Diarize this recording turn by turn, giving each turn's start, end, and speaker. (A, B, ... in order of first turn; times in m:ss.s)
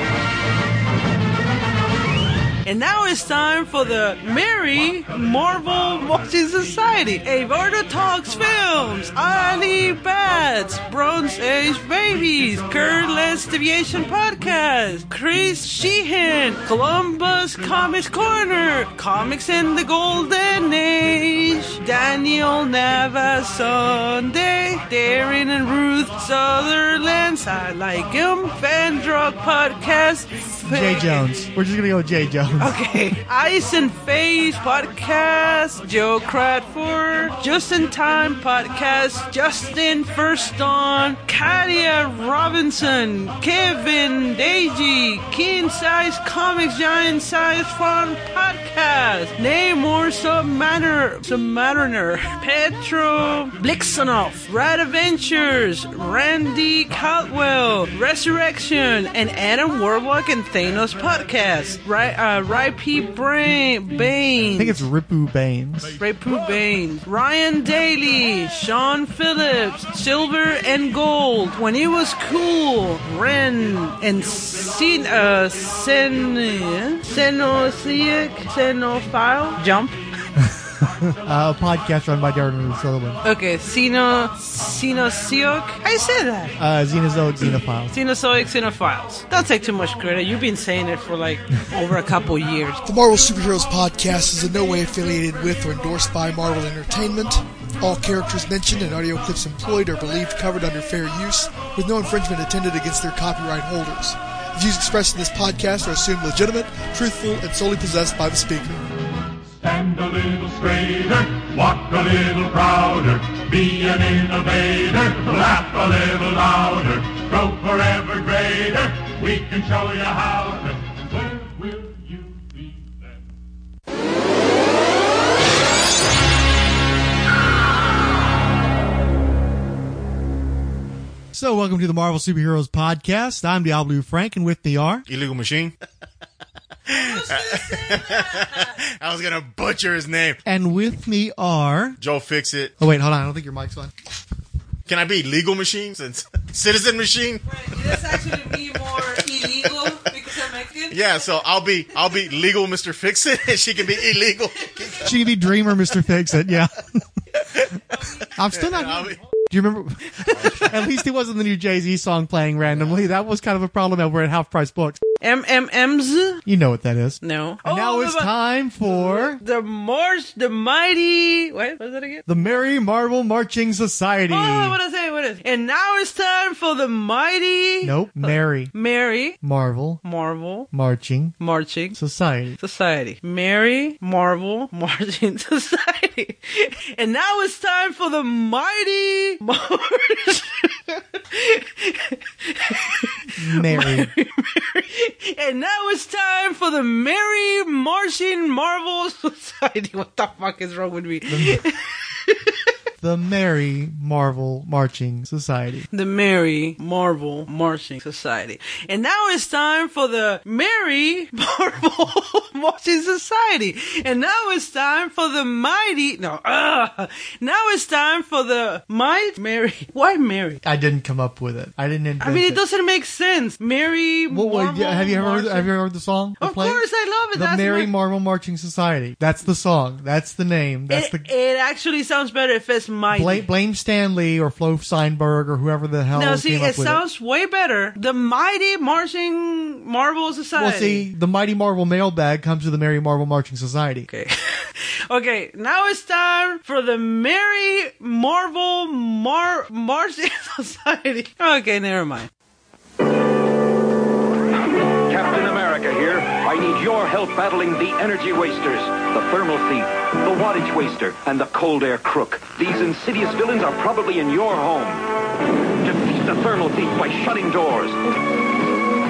0:02.6-0:31.2 A
0:30.6-0:32.8 B
0:32.6-1:04.8 A
1:04.5-1:06.0 B
1:06.0-1:20.0 A
1:20.4-1:23.2 B
1:23.2-1:26.6 A
1:26.6-1:27.9 B
1:27.9-1:32.8 A
1:32.9-1:48.8 C
1:49.6-2:03.0 D
2:11.3-2:15.0 B
2:15.1-2:15.8 E
2:16.9-2:20.4 E
2:17.3-2:18.5 A
2:20.4-2:22.0 B
2:22.0-2:22.8 E
2:22.8-2:23.9 B
2:24.9-2:29.5 E
2:27.5-2:31.0 A
2:30.9-2:35.2 E
2:35.0-2:37.0 B
2:38.0-2:38.2 A
2:38.4-2:45.0 B
2:38.5-2:39.2 E
2:40.3-2:40.8 E
2:45.2-2:46.4 A
2:46.5-2:49.4 B
2:47.2-2:48.3 A
2:48.9-2:52.3 A
2:52.3-2:54.8 B
2:54.3-2:59.4 A
2:57.8-2:58.8 B
2:59.4-3:00.0 B
3:00.0-3:00.7 A
3:00.7-3:01.4 B
3:01.4-3:02.0 A
3:02.0-3:02.6 B
3:02.6-3:22.7 A
3:13.4-3:14.1 B
3:21.3-3:21.6 B
3:23.0-3:25.9 B
3:25.9-3:40.6 A
3:40.6-3:42.6 B
3:42.2-3:45.7 A
3:44.3-3:51.2 B
3:46.4-3:47.9 A
3:50.9-3:53.5 A
3:53.1-3:57.0 B
3:56.1-4:01.1 A
4:00.6-4:04.1 B
4:04.1-4:12.3 A
4:14.8-4:25.1 F
4:25.8-4:28.1 F